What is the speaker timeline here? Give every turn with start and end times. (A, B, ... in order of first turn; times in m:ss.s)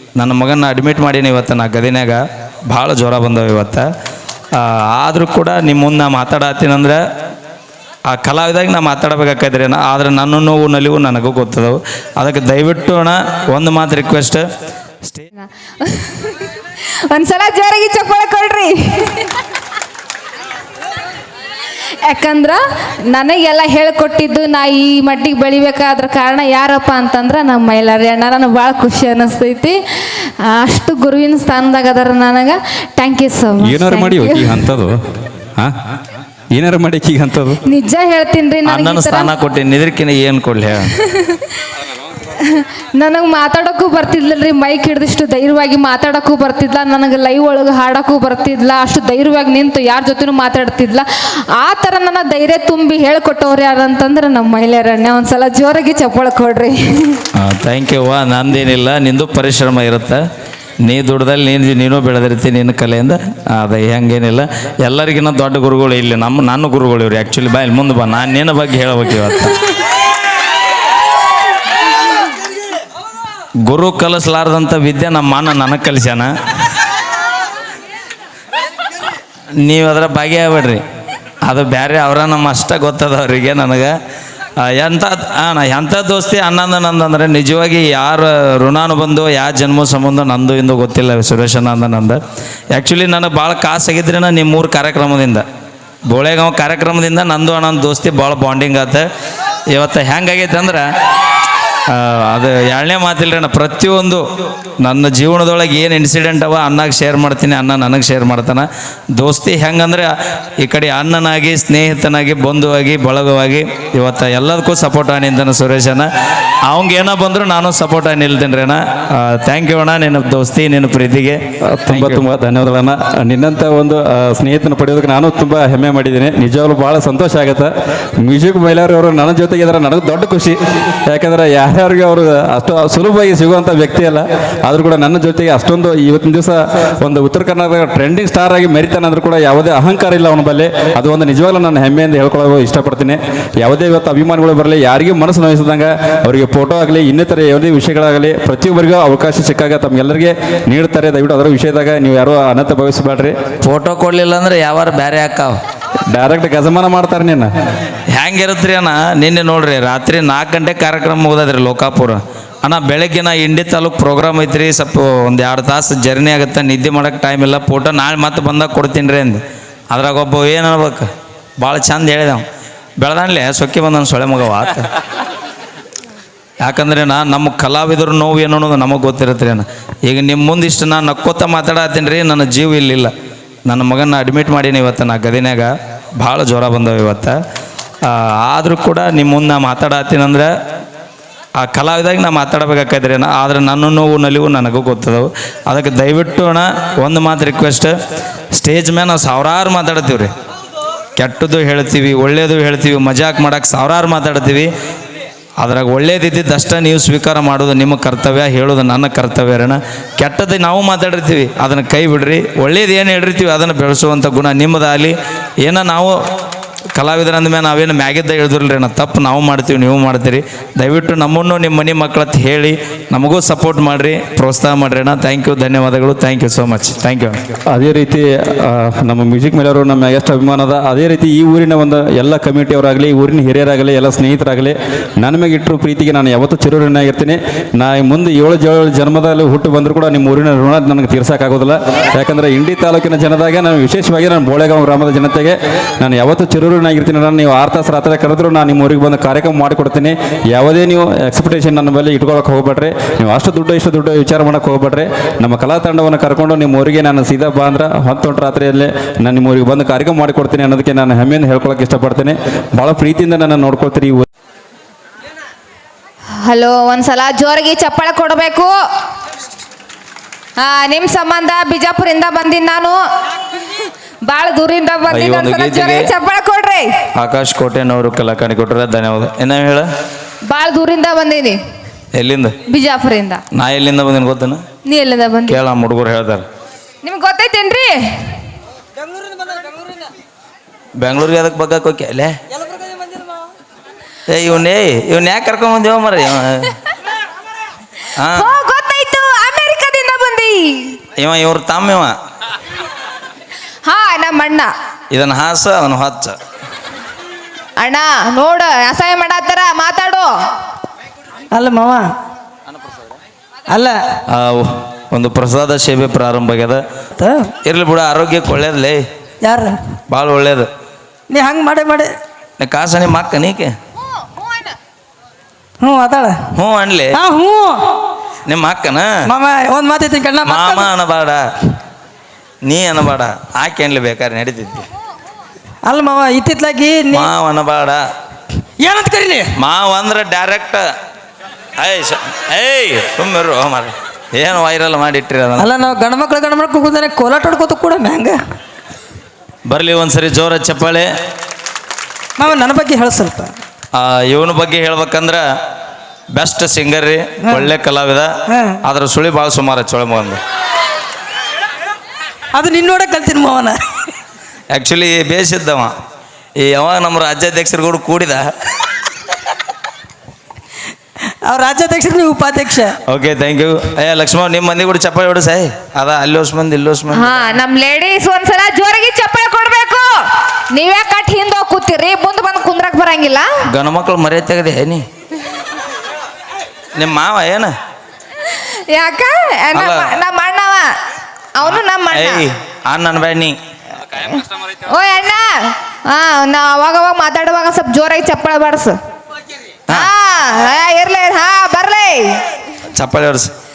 0:00.2-0:03.9 A
0:04.5-0:07.0 A
0:08.1-0:14.4 A
0:15.4-0:19.4 B
0:22.0-0:34.7 B
0:33.6-0:36.0 C
0:36.5-0:37.6 C
0:37.7-0:39.3 B
0:38.7-0:40.9 A
0:40.9-0:41.6 B
0:42.3-0:57.2 B
0:57.4-1:00.2 A
1:00.8-1:09.6 A
1:13.6-1:16.3 A
1:19.6-1:20.8 A
1:21.4-1:24.0 A
1:24.6-1:32.2 A
1:32.7-1:35.5 A
1:36.1-1:39.1 A
1:39.7-1:40.9 A
1:41.9-1:44.3 A
1:44.8-1:56.1 A
1:56.7-2:02.2 A
2:01.7-2:33.4 C
2:33.6-2:35.6 A
2:36.1-2:37.5 C
2:38.1-2:51.1 A
2:51.6-2:52.4 A
2:53.0-2:54.9 A
2:56.6-3:03.1 A
3:03.7-3:07.4 A
3:08.0-3:10.5 A
3:11.6-3:17.9 A
3:18.5-3:20.3 A
3:21.2-3:24.7 A
3:25.6-3:36.2 A
3:36.9-3:47.4 A
3:47.7-4:24.2 C
4:26.4-4:28.7 B
4:30.6-4:33.0 B
4:33.8-4:36.9 B
4:35.1-4:36.1 A
4:37.2-4:39.9 A
4:40.5-4:41.6 B
4:42.1-4:42.6 A
4:42.7-4:43.4 B
4:43.5-4:44.6 A
4:44.9-4:45.6 B
4:45.5-4:46.4 A
4:47.0-4:48.4 B
4:51.0-4:52.4 A
4:54.3-4:56.8 A
4:58.2-4:58.5 A
4:58.3-5:01.0 B
5:01.2-5:02.2 A
5:03.8-5:04.7 B
5:05.1-5:06.4 A
5:07.8-5:10.3 B
5:11.5-5:12.2 D
5:13.7-5:14.2 D
5:14.3-5:16.8 A
5:17.2-5:17.5 D
5:17.6-5:19.0 A
5:19.4-5:19.8 D
5:20.1-5:20.7 A
5:21.3-5:22.1 D
5:22.6-5:23.8 A
5:25.8-5:26.5 D
5:26.5-5:27.2 A
5:27.1-5:28.0 D
5:28.4-5:29.2 A
5:29.3-5:30.9 D
5:30.4-5:31.4 A
5:32.6-5:34.9 A
5:35.8-5:37.3 D
5:37.1-5:38.0 A
5:38.8-5:39.5 D
5:39.6-5:40.9 A
5:41.8-5:45.7 A
5:45.6-5:48.4 D
5:49.7-5:51.1 A
5:52.4-5:53.5 D
5:53.9-5:55.4 A
5:56.3-5:58.3 A
5:57.4-5:57.7 D
5:58.5-5:58.8 D
5:58.8-6:00.4 A
6:02.5-6:04.1 D
6:04.7-6:05.9 A
6:06.6-6:08.5 A
6:11.2-6:13.0 D
6:13.1-6:17.4 A
6:17.1-6:20.1 B
6:20.7-6:23.5 B
6:23.7-6:25.0 A
6:27.0-6:27.8 A
6:28.4-6:30.9 B
6:29.7-6:30.1 A
6:31.6-6:32.4 B
6:31.6-6:33.6 A
6:34.8-6:39.0 B
6:39.9-6:42.4 B
6:42.9-6:43.5 A